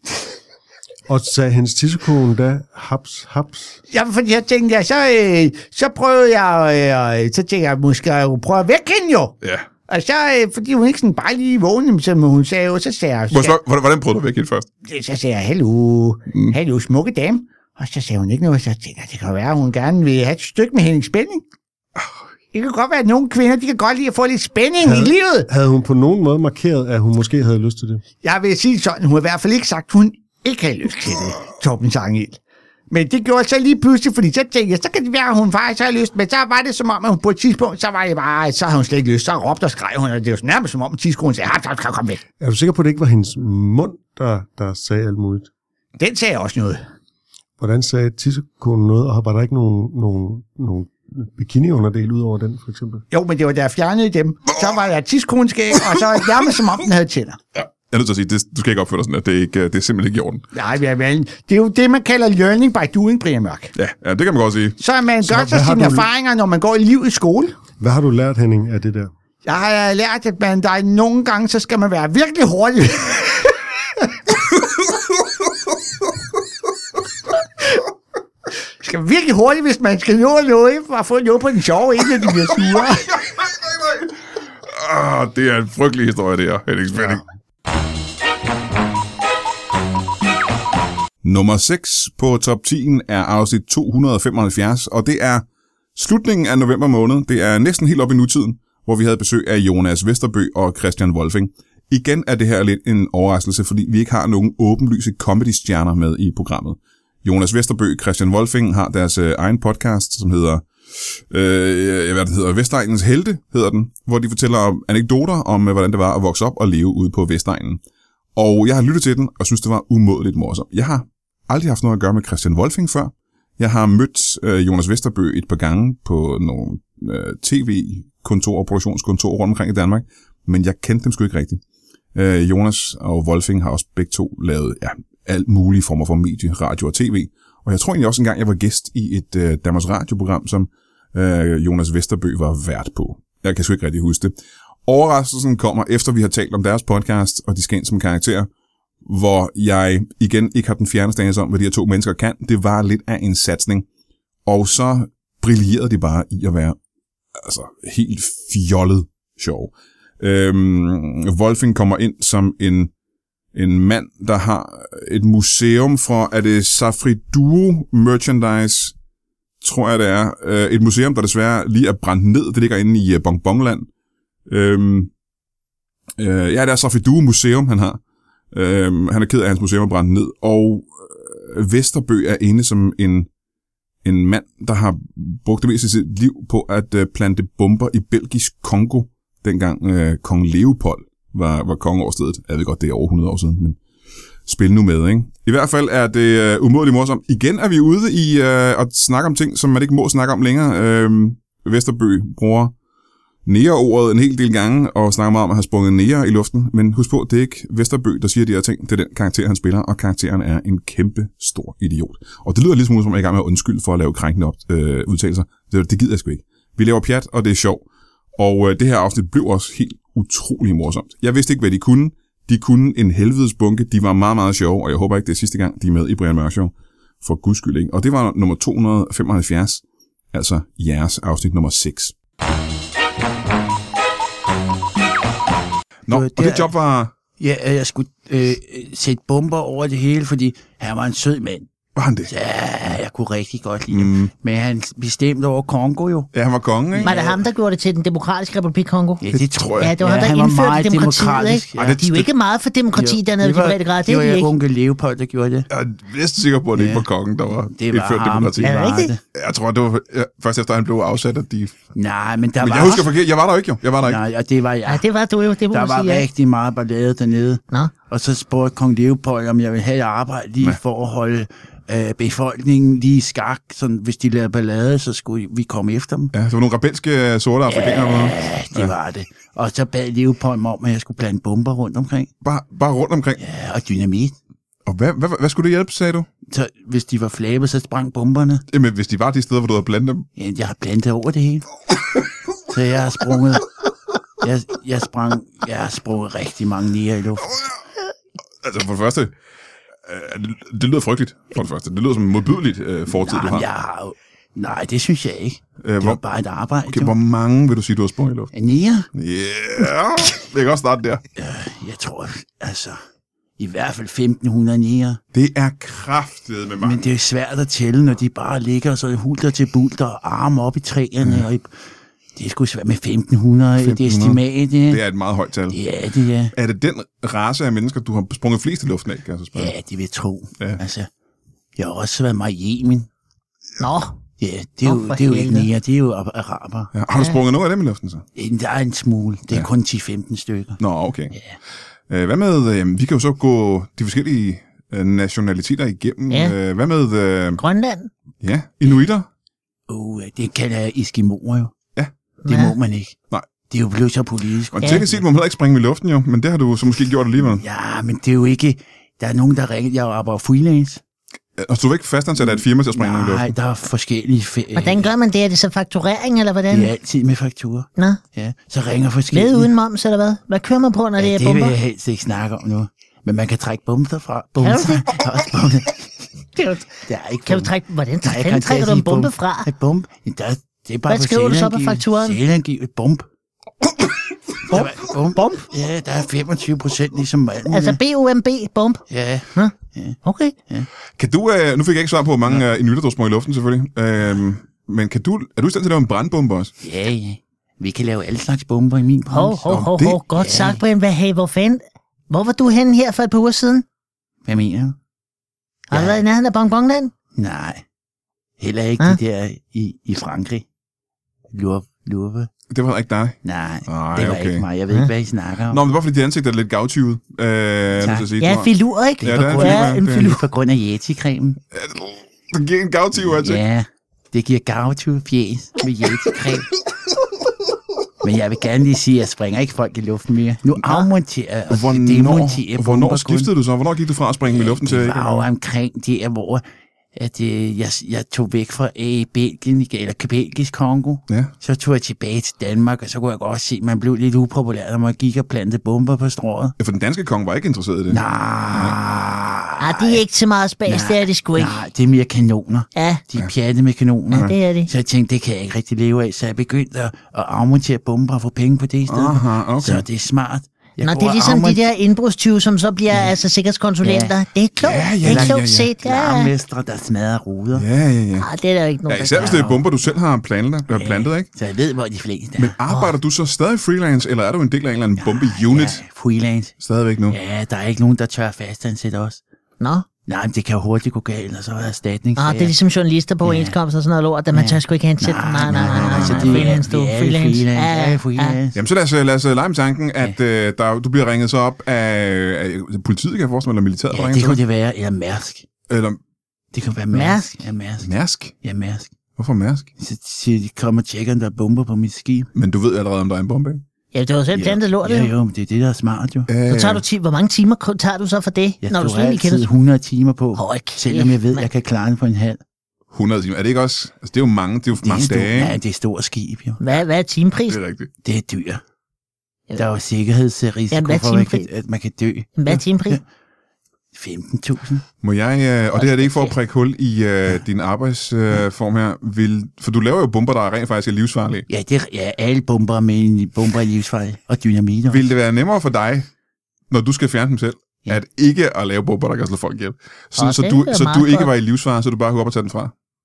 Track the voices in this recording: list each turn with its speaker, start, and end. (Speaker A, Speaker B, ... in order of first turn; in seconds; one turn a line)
Speaker A: 1.1-3.8
Speaker B: 3.9-9.4
Speaker B: 9.9-13.6
Speaker C: 13.3-14.7
Speaker B: 14.9-21.4
Speaker B: 22.5-25.5
Speaker A: 24.8-28.0
Speaker B: 28.2-32.4
Speaker B: 32.9-42.2
Speaker A: 42.4-45.5
Speaker B: 46.0-46.8
Speaker A: 47.6-53.0
Speaker B: 53.1-57.4
Speaker C: 57.6-60.5
Speaker B: 60.5-63.7
Speaker C: 63.8-64.8
Speaker B: 64.8-67.6
Speaker A: 65.2-66.1
Speaker A: 67.8-69.1
Speaker B: 69.5-73.4
Speaker B: 78.8-83.2
Speaker C: 84.7-87.2
Speaker C: 91.2-117.8
Speaker C: 118.4-131.6
Speaker C: 132.2-144.3
Speaker C: 144.9-148.5
Speaker C: 149.1-153.9
Speaker C: 154.5-156.8
Speaker C: 157.4-162.9
Speaker C: 163.5-168.9
Speaker C: 169.6-173.9
Speaker C: 174.5-175.1
Speaker C: 176.2-178.0
Speaker C: 178.5-183.3
Speaker C: 184.0-193.8
Speaker C: 194.5-202.7
Speaker C: 203.5-217.8
Speaker C: 218.4-232.2
Speaker C: 236.1-237.1
Speaker D: 236.1-236.7
Speaker D: 237.4-241.7
Speaker C: 242.0-242.3
Speaker D: 242.3-246.3
Speaker C: 243.9-244.3
Speaker C: 246.3-247.1
Speaker D: 246.9-247.5
Speaker E: 247.1-249.2
Speaker D: 249.2-252.1
Speaker C: 249.3-250.0
Speaker E: 249.8-254.5
Speaker C: 251.8-252.3
Speaker D: 253.0-255.7
Speaker C: 255.7-261.8
Speaker D: 256.7-257.1
Speaker D: 257.7-259.2
Speaker E: 258.6-259.1
Speaker D: 261.9-263.1
Speaker C: 262.6-264.2
Speaker D: 264.0-265.1
Speaker E: 264.9-266.3
Speaker D: 265.7-276.3
Speaker C: 276.3-278.9
Speaker D: 277.7-282.3
Speaker C: 282.4-283.4
Speaker D: 283.4-284.4
Speaker C: 284.9-286.3
Speaker D: 286.5-288.6
Speaker C: 288.7-290.3
Speaker D: 290.4-291.7
Speaker D: 292.7-293.7
Speaker D: 294.4-297.6
Speaker C: 298.6-299.3
Speaker C: 300.1-303.7
Speaker D: 303.1-307.1
Speaker C: 305.8-306.2
Speaker C: 306.9-308.5
Speaker D: 308.5-309.1
Speaker C: 309.1-311.2
Speaker D: 311.4-313.0
Speaker D: 313.6-315.2
Speaker C: 315.3-317.0
Speaker D: 316.8-321.7
Speaker D: 322.4-325.0
Speaker C: 323.8-325.8
Speaker D: 325.7-326.5
Speaker C: 326.5-329.7
Speaker D: 329.6-331.1
Speaker D: 331.8-333.1
Speaker E: 333.8-334.2
Speaker D: 334.4-336.9
Speaker E: 334.8-335.7
Speaker C: 336.9-338.2
Speaker D: 338.4-340.8
Speaker C: 340.8-341.4
Speaker C: 342.1-347.6
Speaker E: 346.3-346.6
Speaker E: 347.6-348.1
Speaker C: 348.4-349.3
Speaker D: 349.9-351.7
Speaker E: 352.4-352.8
Speaker D: 352.5-355.2
Speaker C: 354.7-357.6
Speaker D: 357.4-361.0
Speaker C: 361.6-363.5
Speaker D: 362.6-365.1
Speaker E: 364.8-366.9
Speaker D: 366.7-369.7
Speaker E: 368.0-368.2
Speaker E: 369.3-371.8
Speaker D: 371.2-376.0
Speaker E: 374.6-375.1
Speaker E: 376.6-379.7
Speaker D: 377.1-383.3
Speaker E: 381.1-382.4
Speaker E: 384.7-385.7
Speaker D: 384.7-388.0
Speaker E: 387.7-389.0
Speaker D: 389.1-390.9
Speaker E: 389.6-390.6
Speaker C: 391.2-396.7
Speaker D: 396.8-399.7
Speaker E: 399.3-403.8
Speaker C: 399.7-400.2
Speaker D: 400.4-400.8
Speaker D: 404.4-404.9
Speaker E: 405.9-407.1
Speaker D: 405.9-406.2
Speaker D: 407.3-407.8
Speaker D: 408.6-410.6
Speaker D: 411.5-412.5
Speaker C: 412.7-414.7
Speaker D: 413.4-415.8
Speaker C: 415.7-420.3
Speaker D: 418.0-418.3
Speaker E: 418.4-420.4
Speaker D: 419.2-421.6
Speaker C: 421.8-423.6
Speaker D: 423.1-426.7
Speaker D: 428.2-433.5
Speaker E: 430.8-431.1
Speaker C: 431.7-435.5
Speaker D: 434.5-436.6
Speaker D: 437.1-446.8
Speaker C: 446.8-448.2
Speaker D: 448.1-450.2
Speaker C: 448.7-449.0
Speaker E: 449.8-451.8
Speaker D: 450.9-461.8
Speaker E: 452.9-453.2
Speaker E: 454.4-454.9
Speaker C: 459.1-460.1
Speaker E: 461.0-466.5
Speaker D: 464.0-467.9
Speaker C: 464.8-465.9
Speaker C: 467.7-468.5
Speaker E: 468.4-469.2
Speaker C: 469.1-471.5
Speaker D: 469.2-469.8
Speaker D: 470.9-473.1
Speaker C: 472.6-476.0
Speaker D: 475.2-476.7
Speaker C: 476.8-477.4
Speaker D: 477.3-479.4
Speaker E: 479.8-480.1
Speaker D: 480.2-482.8
Speaker E: 482.4-488.6
Speaker D: 483.4-483.8
Speaker D: 484.5-488.8
Speaker C: 485.7-486.8
Speaker C: 488.8-494.6
Speaker D: 494.1-495.7
Speaker C: 495.9-496.2
Speaker D: 496.7-499.1
Speaker E: 497.1-497.6
Speaker C: 498.0-498.6
Speaker C: 499.4-499.9
Speaker D: 500.0-502.5
Speaker C: 502.5-503.8
Speaker E: 504.1-505.3
Speaker D: 504.5-506.6
Speaker C: 506.5-507.0
Speaker E: 506.6-509.7
Speaker D: 508.8-512.6
Speaker E: 510.6-511.7
Speaker C: 513.1-515.8
Speaker D: 515.0-516.8
Speaker E: 516.8-517.8
Speaker C: 517.7-518.1
Speaker D: 518.2-518.8
Speaker D: 519.8-523.2
Speaker E: 520.9-521.7
Speaker E: 522.6-523.2
Speaker D: 524.1-525.0
Speaker C: 525.2-531.6
Speaker D: 525.9-526.6
Speaker D: 531.7-535.2
Speaker C: 535.1-536.3
Speaker C: 536.9-542.9
Speaker E: 540.4-541.5